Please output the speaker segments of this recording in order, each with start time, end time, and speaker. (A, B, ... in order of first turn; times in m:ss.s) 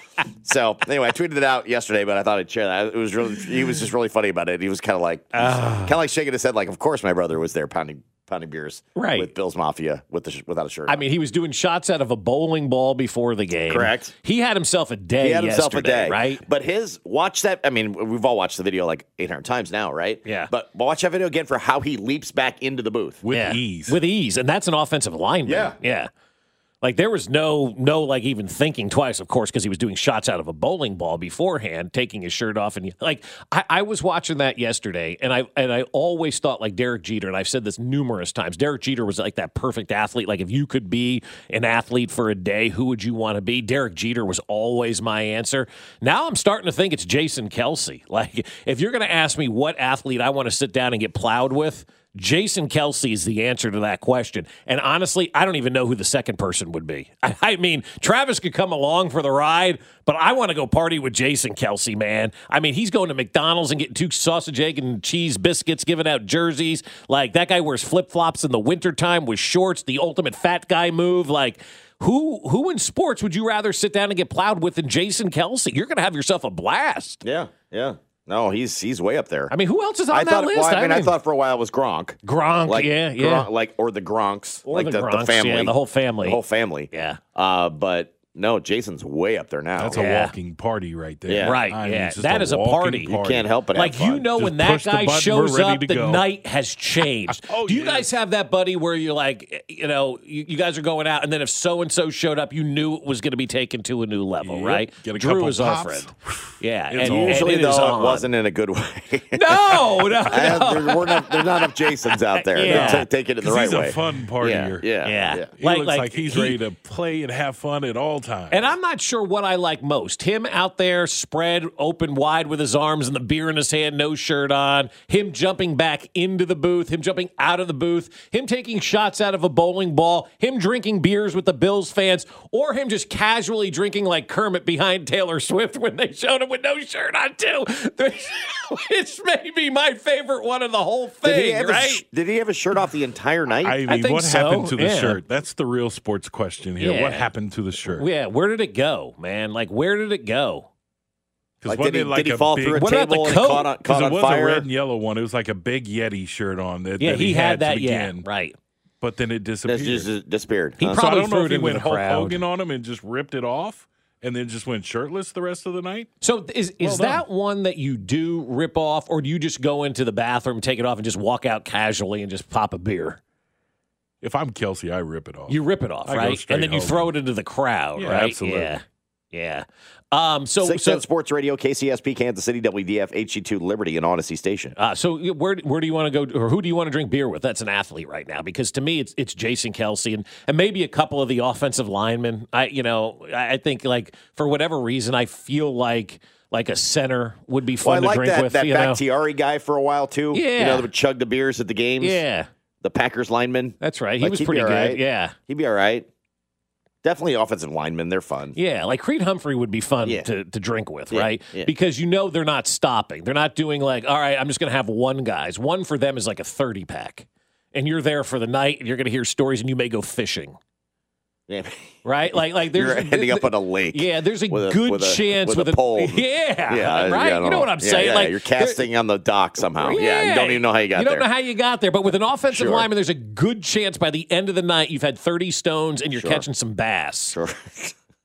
0:00.4-0:11.0 A
0:05.3-0:06.0 B
0:09.0-0:09.3 B
0:10.9-0:16.4 B
0:13.7-0:14.1 A
0:15.2-0:23.2 A
0:20.2-0:20.5 B
0:23.2-0:24.0 C
0:23.3-0:26.1 B
0:25.5-0:25.8 A
0:26.8-1:17.2 B
1:17.2-1:19.5 A
1:19.5-1:21.2 B
1:20.1-1:30.1 A
1:22.2-1:23.5 B
1:24.7-1:26.4 B
1:26.9-1:27.2 B
1:29.8-1:33.6 C
1:29.9-1:30.3 B
1:31.3-1:31.6 A
1:31.4-1:33.1 B
1:33.1-1:34.2 A
1:33.7-1:48.3 B
1:34.2-1:36.3 C
1:37.3-1:38.1 C
1:44.4-1:47.5 C
1:47.0-1:55.5 A
1:49.3-1:53.1 B
1:52.6-1:54.9 C
1:55.0-1:56.6 B
1:55.6-1:58.7 C
1:58.5-2:22.0 B
2:21.2-2:23.8 A
2:23.6-2:28.1 C
2:23.9-2:25.2 B
2:26.8-2:27.3 B
2:27.9-2:30.7 B
2:31.6-2:32.8 C
2:31.6-2:34.6 A
2:32.7-2:33.7 B
2:33.8-2:38.3 C
2:37.0-2:38.6 B
2:39.0-2:40.1 C
2:39.6-2:41.0 A
2:40.8-2:42.4 B
2:40.8-2:46.1 C
2:46.2-2:53.2 B
2:46.8-2:47.2 C
2:54.2-2:57.2 C
2:55.5-3:01.0 B
2:58.0-2:58.7 C
3:00.6-3:04.7 A
3:04.8-3:19.0 B
3:17.8-3:22.2 A
3:20.3-3:20.9 B
3:22.0-3:22.5 B
3:22.8-3:26.1 A
3:23.8-3:25.3 B
3:27.0-3:28.6 A
3:28.5-3:40.6 B
3:31.1-3:31.7 A
3:41.5-3:41.9 A
3:42.0-3:48.8 B
3:42.7-3:51.3 A
3:49.6-3:57.4 B
3:52.5-3:52.9 A
3:56.2-3:56.4 A
3:57.3-3:57.9 A